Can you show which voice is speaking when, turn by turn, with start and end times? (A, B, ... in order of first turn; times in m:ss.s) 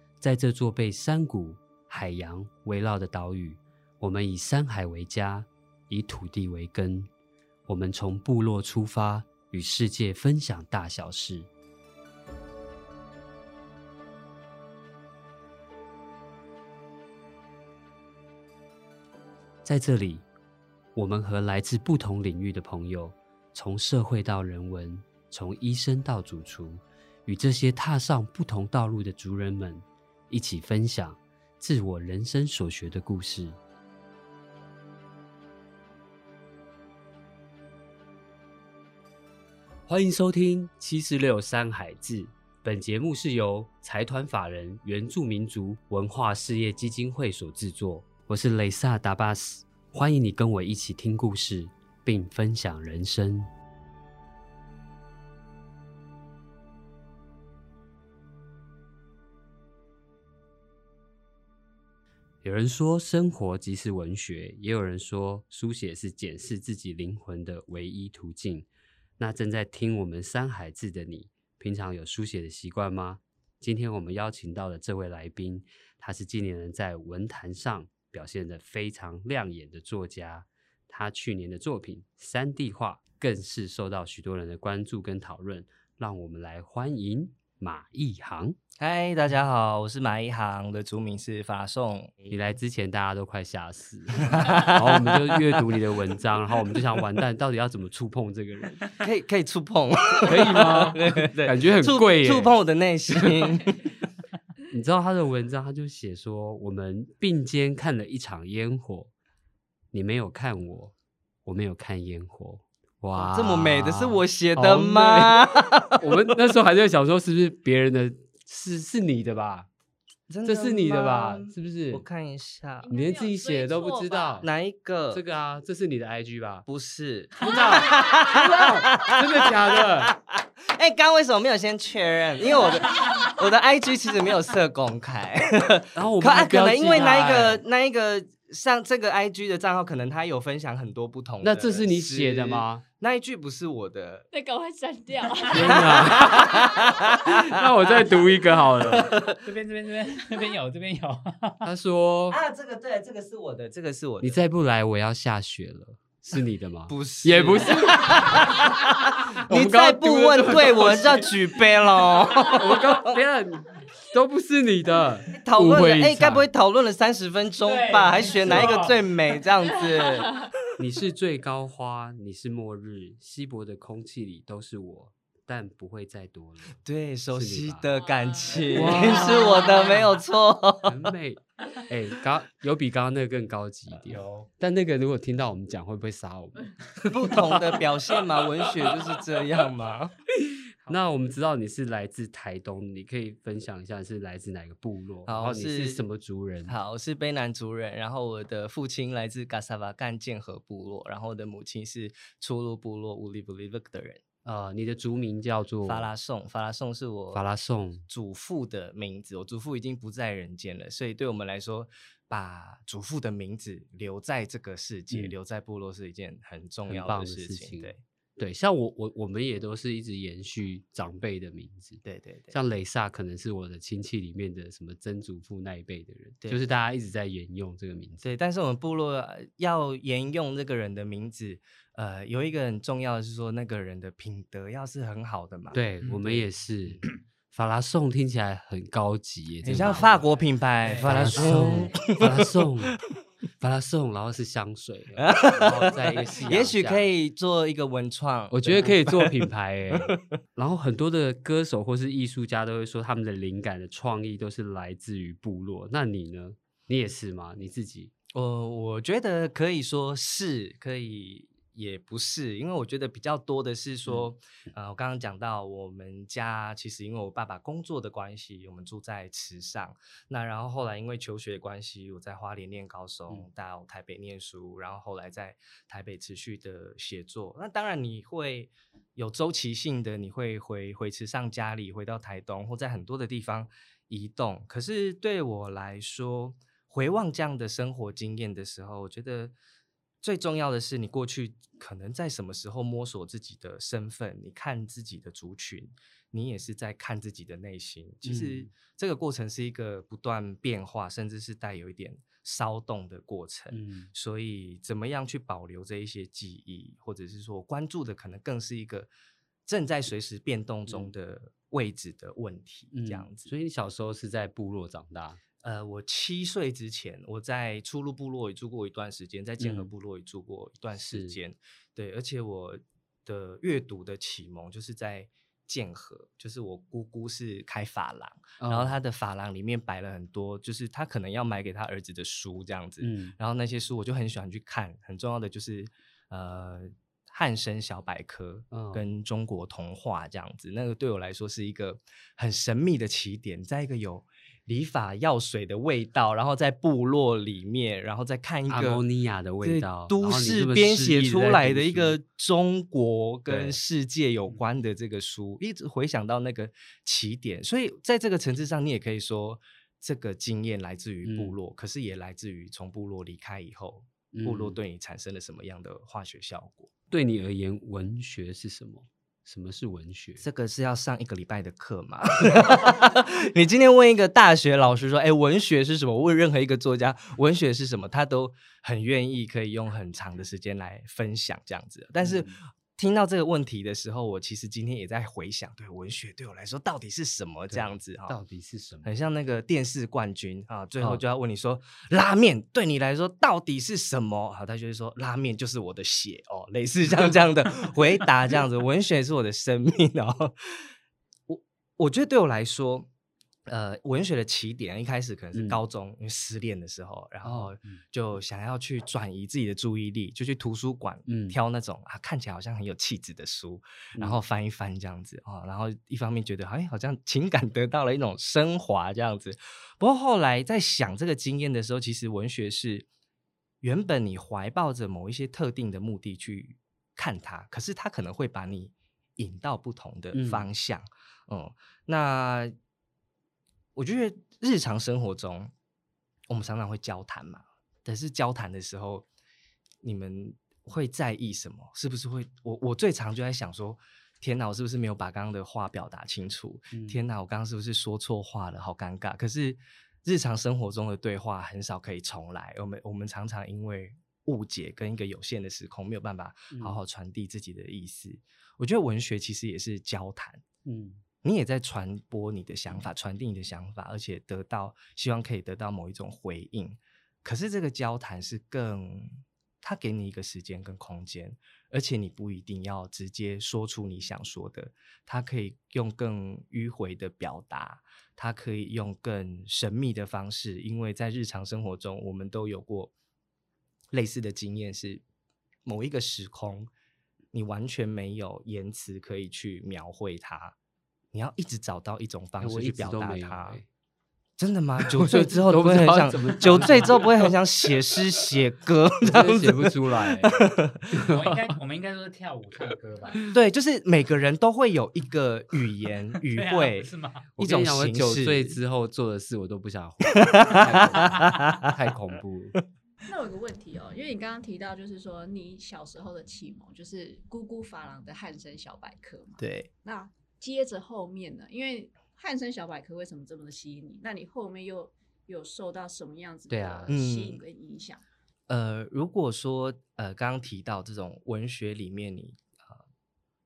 0:00.2-0:07.1 A
0:07.7-0:11.5 A
0:19.6-0:20.3 A
0:21.0-0:33.6 A
0:39.9-0:53.5 A
1:02.4-1:08.7 A
1:09.2-1:28.6 A
1:28.8-1:32.2 B
1:32.3-1:38.9 A
1:34.2-1:35.7 B
1:39.0-1:44.0 B
1:40.3-1:42.6 A
1:43.1-1:43.4 A
1:44.7-1:49.1 A
1:49.9-1:50.9 A
1:51.4-1:59.7 A
1:53.1-1:56.1 B
2:00.3-2:02.9 B
2:00.4-2:02.0 A
2:02.8-2:04.5 C
2:02.9-2:04.5 A
2:04.4-2:05.2 B
2:05.1-2:06.7 A
2:06.7-2:24.3 B
2:07.4-2:10.1 A
2:07.5-2:08.5 C
2:16.0-2:17.6 A
2:21.4-2:22.8 A
2:24.3-2:27.2 C
2:25.5-2:29.2 A
2:25.6-2:27.6 B
2:28.8-2:29.5 B
2:29.2-2:31.6 D
2:31.6-2:32.4 A
2:32.3-2:34.4 B
2:34.2-2:38.7 A
2:36.9-2:43.2 B
2:39.5-2:41.3 A
2:42.4-2:46.5 A
2:45.4-2:50.6 B
2:47.6-2:49.0 D
2:50.8-2:56.8 A
2:56.8-3:01.0 B
2:57.3-2:57.9 A
2:58.0-3:00.2 C
2:58.7-2:59.9 A
3:00.8-3:07.8 A
3:04.1-3:04.5 D
3:07.1-3:10.1 B
3:10.9-3:16.8 A
3:15.3-3:16.1 B
3:16.7-3:24.2 B
3:24.4-3:26.1 A
3:25.8-3:27.4 B
3:27.3-3:28.1 A
3:28.1-3:38.0 B
3:36.9-3:48.3 A
3:42.0-3:42.6 B
3:48.2-3:56.4 B
3:55.7-4:00.3 A
3:56.0-3:56.4 D
3:59.6-4:03.1 B
4:00.8-4:01.6 D
4:01.0-4:03.0 A
4:03.6-4:07.1 A
4:05.2-4:10.2 B
4:08.5-4:18.1 A
4:18.3-4:49.6 B
4:50.2-5:09.1 B
4:58.2-4:58.7 A
5:03.7-5:04.1 A
5:09.7-5:13.5 B
5:10.9-5:11.1 A
5:12.9-5:15.4 A
5:15.6-5:49.0 B
5:19.6-5:19.9 A
5:21.0-5:21.4 A
5:28.6-5:29.0 A
5:33.0-5:33.4 A
5:38.7-5:39.0 A
5:48.7-5:52.2 A
5:49.6-6:06.9 B
5:53.5-5:53.8 A
6:01.2-6:01.6 A
6:04.3-6:04.8 A
6:07.1-6:10.4 A
6:10.4-6:28.4 B
6:22.2-6:22.6 A
6:27.7-6:29.1 A
6:29.0-6:40.9 B
6:41.5-6:43.1 B
6:43.7-7:03.1 B
6:45.5-6:45.8 A
6:47.4-6:47.7 A
6:51.3-6:51.6 A
7:03.8-7:12.8 B
7:10.3-7:10.7 A
7:14.0-7:15.7 B
7:16.5-7:19.3 B
7:20.0-7:40.6 B
7:26.9-7:27.2 A
7:36.7-7:37.0 A
7:40.8-7:41.2 A
7:41.4-8:03.1 B
8:04.1-8:05.2 B
8:05.9-8:06.9 B
8:07.5-8:10.8 B
8:11.3-8:13.8 B
8:12.6-8:13.9 A
8:14.6-8:21.3 B
8:15.0-8:17.6 A
8:19.2-8:21.6 A
8:21.3-8:23.4 D
8:23.5-8:28.8 B
8:26.4-8:27.5 D
8:27.6-8:32.8 A
8:30.3-8:31.9 B
8:31.1-8:31.6 D
8:33.3-8:48.2 C
8:39.6-8:39.9 B
8:46.7-8:47.2 A
8:47.1-8:47.6 B
8:48.7-8:53.0 B